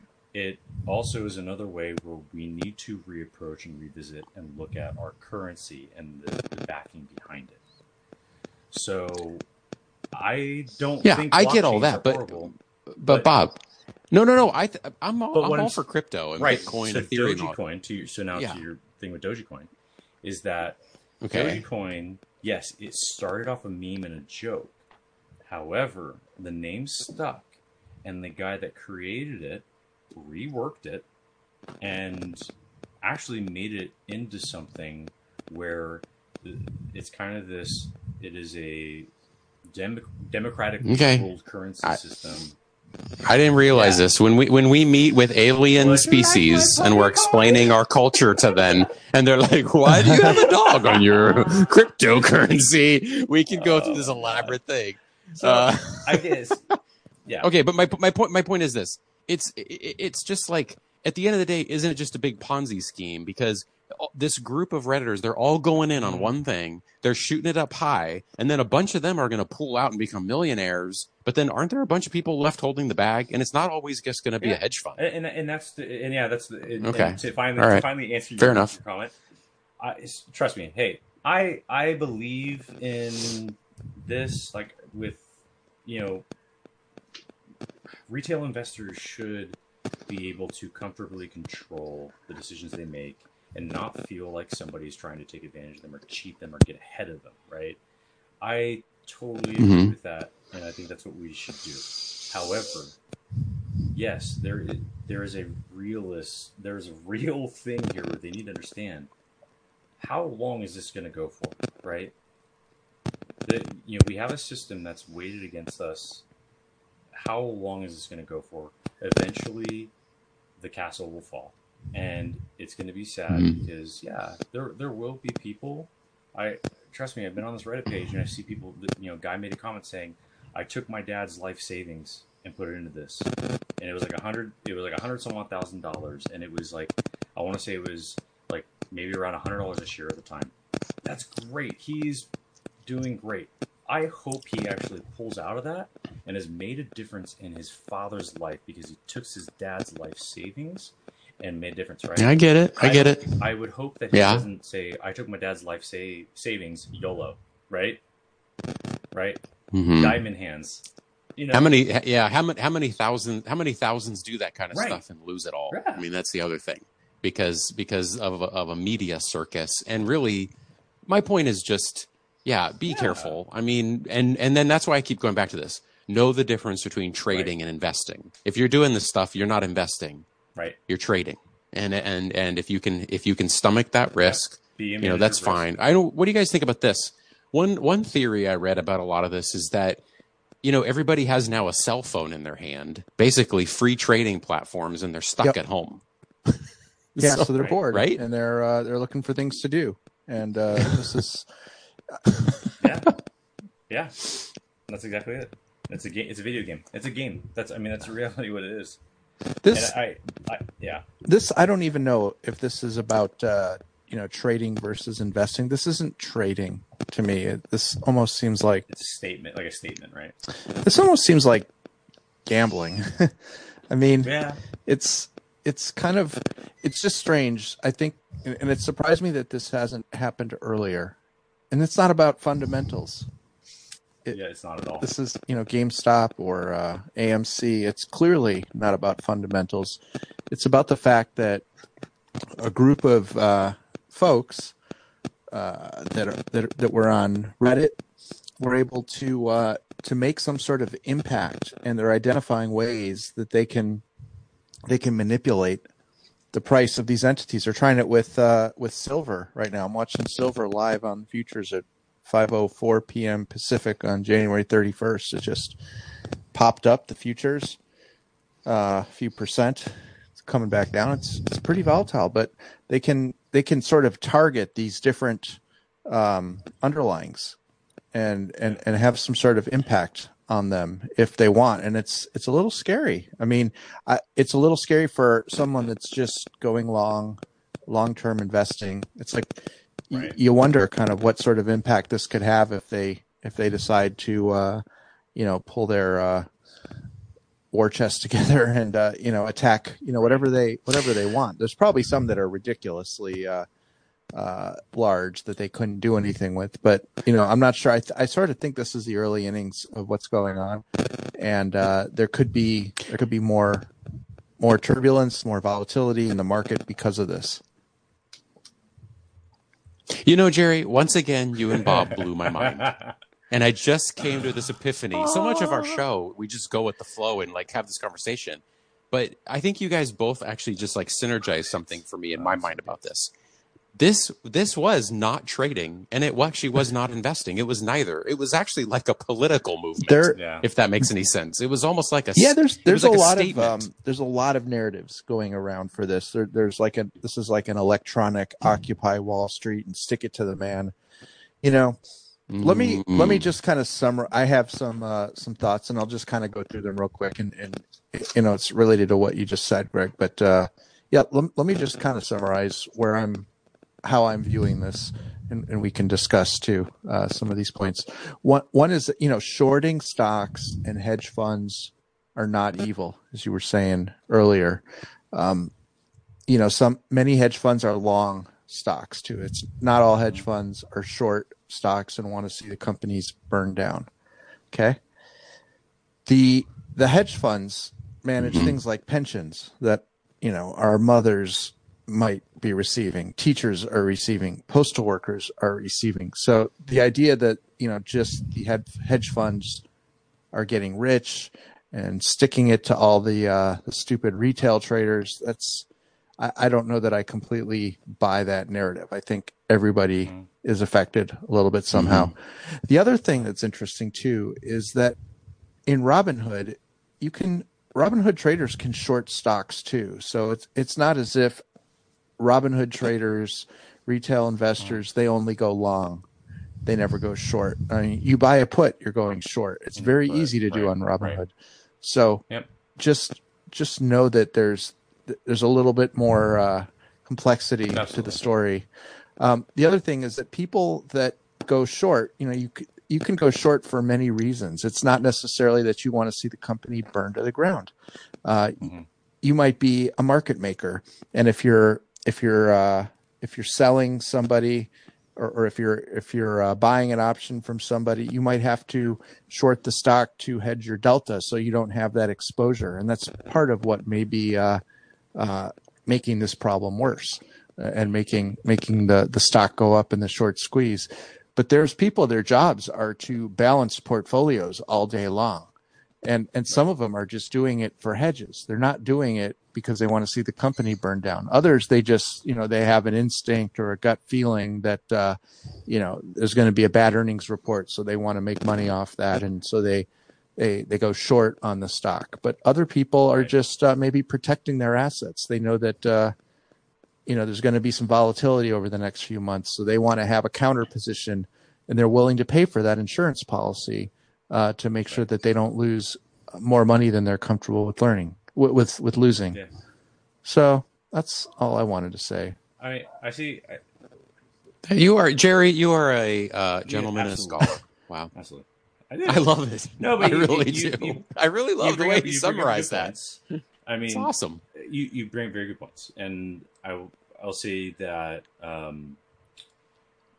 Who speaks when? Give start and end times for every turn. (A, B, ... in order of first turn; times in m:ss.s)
0:00.3-0:07.6 A
0:08.7-0:09.4 A
0:10.1-0:12.5 A
0:11.0-0:13.6 B
0:14.1-0:17.6 B
0:15.3-0:15.8 A
0:16.4-0:19.7 A
0:18.3-0:18.6 B
0:20.2-0:20.8 A
0:21.2-0:21.6 B
0:21.3-0:24.8 A
0:25.4-0:31.1 A
0:31.8-0:32.5 A
0:33.0-0:39.1 A
0:39.7-0:42.6 A
0:40.8-0:41.3 B
0:43.2-0:56.4 B
0:43.7-0:44.0 A
0:45.8-0:47.7 A
0:53.6-0:54.6 A
0:55.4-0:56.7 A
0:57.4-1:15.0 B
1:06.0-1:06.3 A
1:14.4-1:19.2 A
1:16.8-1:18.8 B
1:19.8-1:25.3 A
1:25.8-1:26.2 A
1:28.1-1:37.8 A
1:38.4-1:43.0 A
1:39.6-1:39.9 B
1:43.9-1:49.1 A
1:50.0-1:52.1 A
1:53.4-1:56.2 A
1:57.1-1:59.9 A
2:00.6-2:20.5 A
2:03.3-2:03.6 B
2:21.0-2:22.3 A
2:22.8-2:38.0 A
2:32.2-2:33.4 B
2:34.1-2:34.5 B
2:39.1-2:40.8 A
2:39.7-2:40.2 B
2:41.4-2:41.8 A
2:41.5-2:50.5 B
2:44.7-2:45.0 A
2:45.7-2:46.0 A
2:51.1-3:00.2 B
2:52.9-2:53.4 A
3:00.9-3:10.0 B
3:04.2-3:05.6 A
3:10.6-3:18.2 B
3:17.2-3:21.5 C
3:22.3-3:22.6 B
3:22.8-3:23.1 A
3:23.9-3:24.3 A
3:24.9-3:29.0 A
3:29.6-3:30.0 C
3:29.7-3:31.1 A
3:31.2-3:38.8 C
3:38.9-3:40.4 A
3:40.7-3:41.7 C
3:42.4-3:51.2 C
3:44.2-3:44.6 A
3:51.7-3:53.3 C
3:54.3-3:55.1 A
3:55.0-4:00.0 C
4:00.5-4:01.6 C
4:02.6-4:04.8 C
4:05.5-4:08.0 C
4:08.6-4:14.0 C
4:14.9-4:15.8 C
4:16.5-4:25.8 C
4:26.5-4:27.8 C
4:28.6-4:37.6 C
4:38.1-4:54.8 C
4:55.4-4:56.5 C
4:57.7-5:03.7 C
5:04.3-5:13.9 C
5:14.6-5:17.6 C
5:20.1-5:23.0 B
5:21.8-5:23.1 A
5:23.5-5:33.3 B
5:25.2-5:26.0 A
5:32.4-5:33.0 A
5:34.0-5:43.8 B
5:40.0-5:40.4 C
5:40.3-5:40.6 A
5:42.4-5:51.0 C
5:51.6-5:52.0 C
5:52.5-5:53.4 B
5:52.6-6:03.5 C
6:04.0-6:15.7 C
6:16.5-6:24.1 C
6:24.7-6:25.0 C
6:26.3-6:39.8 C
6:28.4-6:28.7 B
6:40.5-6:45.9 C
6:46.4-6:55.2 C
6:51.9-6:52.3 B
6:55.9-7:01.6 C
7:02.4-7:06.2 C
7:06.8-7:11.5 C
7:10.0-7:11.4 A
7:12.0-7:12.4 C
7:13.0-7:18.9 C
7:17.9-7:18.4 A
7:19.4-7:27.9 C
7:28.4-7:28.9 C
7:28.8-7:29.1 A
7:29.4-7:44.8 C
7:45.4-7:55.7 C
7:56.2-8:16.4 C
8:17.3-8:29.6 C
8:30.4-8:32.6 C
8:32.8-8:33.8 A
8:34.9-8:38.3 B
8:36.9-8:37.8 A
8:38.3-8:41.3 A
8:39.3-8:43.1 B
8:41.8-8:49.2 A
8:44.1-8:44.6 B